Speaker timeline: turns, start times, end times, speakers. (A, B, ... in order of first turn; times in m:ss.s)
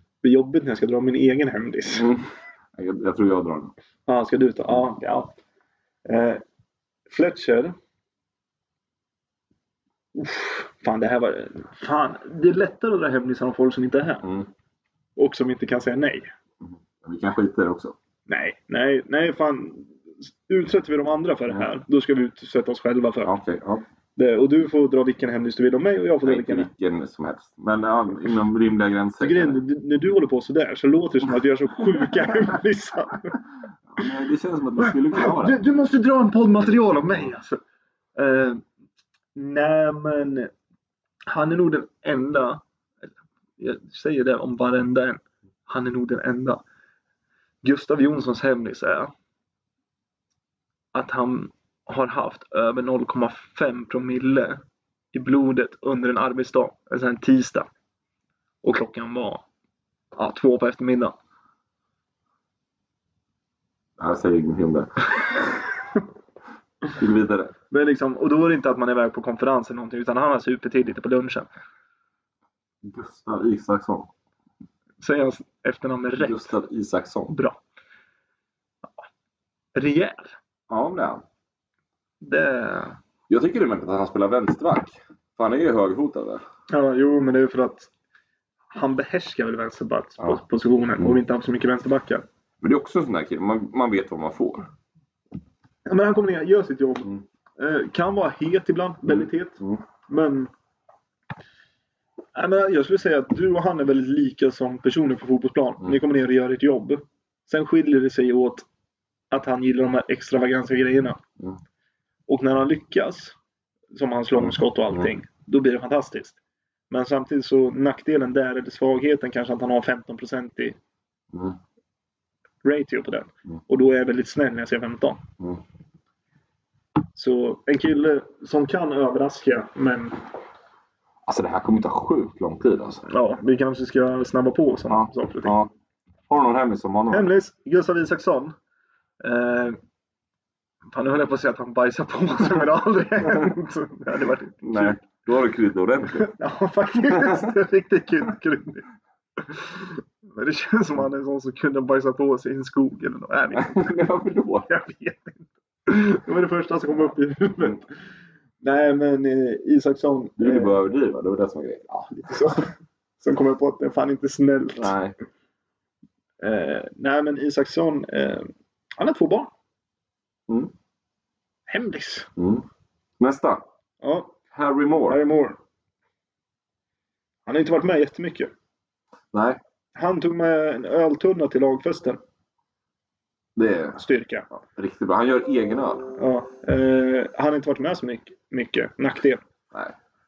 0:00.2-0:02.1 A
0:01.9-0:03.7 B
0:04.1-0:05.3 A
0:06.0-0:06.4 A
0:07.1-0:07.7 A
0:10.1-0:14.2 A
0:14.2-0:14.5 B
0:15.2-0:16.3 A
0:16.6-0:18.0 B
0:18.3-0:23.3 A
0:23.2-0:23.8 B
0:24.2-0:26.7 A
0:26.2-0:29.6 B
0:29.2-0:33.4 A
0:33.9-0:35.6 B
0:34.8-0:37.6 A
0:38.2-0:38.6 A
0:39.3-0:40.5 A
0:41.3-0:42.6 A
0:43.6-0:46.6 A
0:47.6-0:49.1 A
0:50.9-0:54.6 A
0:55.1-0:57.7 A
0:58.6-0:59.4 A
1:00.2-1:01.1 A
1:04.0-1:05.5 B
1:07.0-1:07.5 B
1:07.7-1:11.5 A
1:12.8-1:14.1 B
1:15.0-1:16.5 A
1:16.2-1:17.3 B
1:17.3-1:17.6 A
1:19.7-1:20.3 A
1:20.7-1:21.2 B
1:22.2-1:23.0 A
1:23.3-1:26.4 B
1:26.7-1:27.9 A
1:28.7-1:32.2 A
1:32.6-1:34.7 B
1:35.8-1:40.5 A
1:39.0-1:39.8 B
1:42.3-1:48.6 A
1:49.3-1:51.2 A
1:52.3-1:53.4 A
1:53.9-1:56.4 A
1:54.4-1:55.1 B
1:56.9-2:00.8 A
2:01.3-2:01.6 B
2:02.6-2:05.2 A
2:07.1-2:10.2 A
2:11.2-2:13.0 B
2:13.1-2:15.5 A
2:14.9-2:15.7 B
2:16.3-2:17.3 B
2:17.1-2:18.5 A
2:19.2-2:19.8 A
2:20.9-2:25.0 A
2:24.6-2:26.3 B
2:26.2-2:28.8 A
2:27.1-2:27.5 B
2:29.4-2:33.9 A
2:33.5-2:34.7 B
2:34.7-2:37.9 A
2:38.6-2:40.7 A
2:40.4-2:41.9 B
2:41.9-2:44.9 A
2:44.8-2:45.1 B
2:46.4-2:49.5 A
2:51.7-2:52.3 A
2:52.4-2:52.6 B
2:53.2-2:53.6 B
2:54.0-2:54.3 A
2:54.5-2:55.2 B
2:55.1-2:55.6 A
2:57.4-2:58.5 A
2:59.3-2:59.6 B
3:00.0-3:02.2 A
3:03.6-3:04.0 B
3:04.0-3:04.5 A
3:04.5-3:06.1 B
3:06.2-3:09.4 A